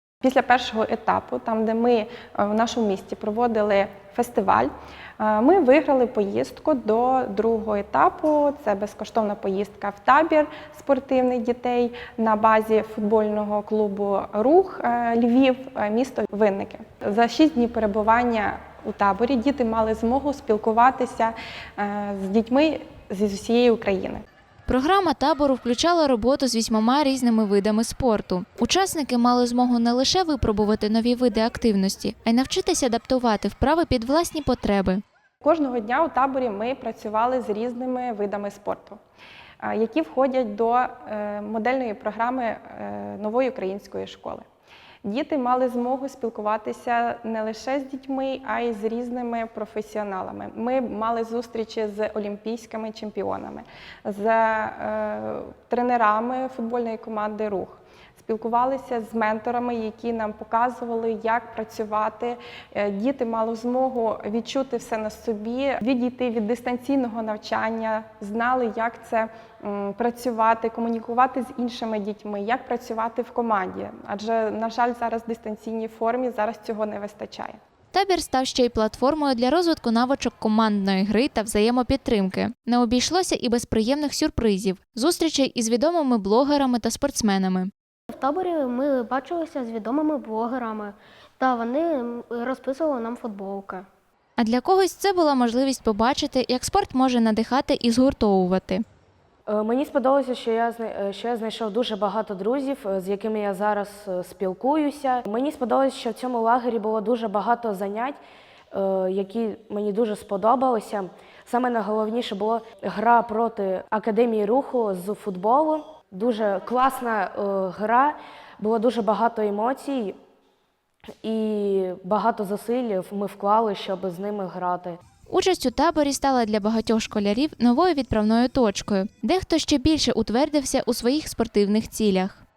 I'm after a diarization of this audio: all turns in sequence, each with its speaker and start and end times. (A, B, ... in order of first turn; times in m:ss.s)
0:00.2-0:24.2 A
0:24.6-0:35.0 B
0:35.4-0:39.0 A
0:39.6-0:44.4 A
0:45.0-1:17.6 A
1:17.9-1:27.7 B
1:28.1-1:33.9 C
1:34.4-1:38.8 B
1:39.5-1:48.2 D
1:48.7-2:00.2 D
2:01.2-2:05.0 D
2:05.3-2:12.4 B